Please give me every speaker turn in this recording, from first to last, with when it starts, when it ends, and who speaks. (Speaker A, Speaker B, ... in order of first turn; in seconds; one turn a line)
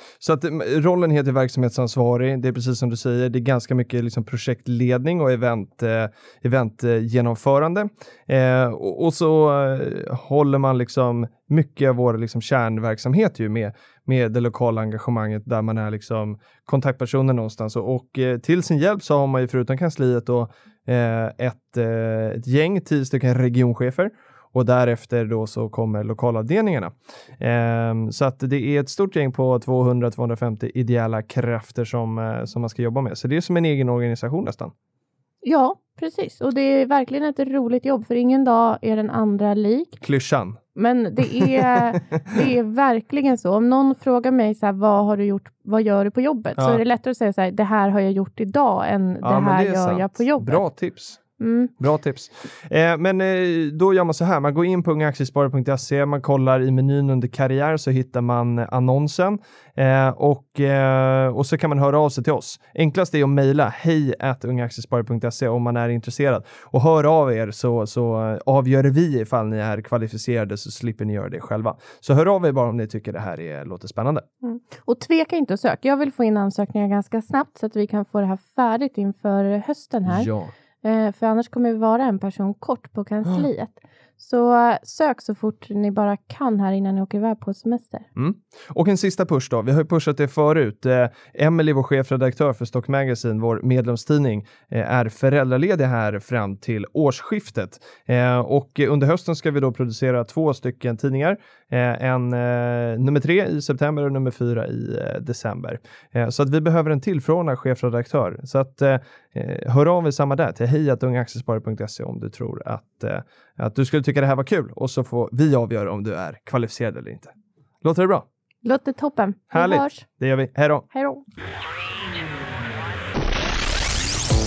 Speaker A: 0.2-34.7
Speaker B: 35.4-40.0
Speaker A: 40.0-40.6
Speaker B: 40.8-50.6
Speaker A: 49.2-51.2
Speaker B: 51.4-51.7
Speaker A: 51.8-74.2
Speaker B: 74.4-80.3
Speaker A: 80.1-80.5
Speaker B: 80.8-88.0
Speaker A: 88.2-118.2
Speaker B: 118.6-120.0
Speaker A: 119.5-120.9
Speaker B: 120.9-121.2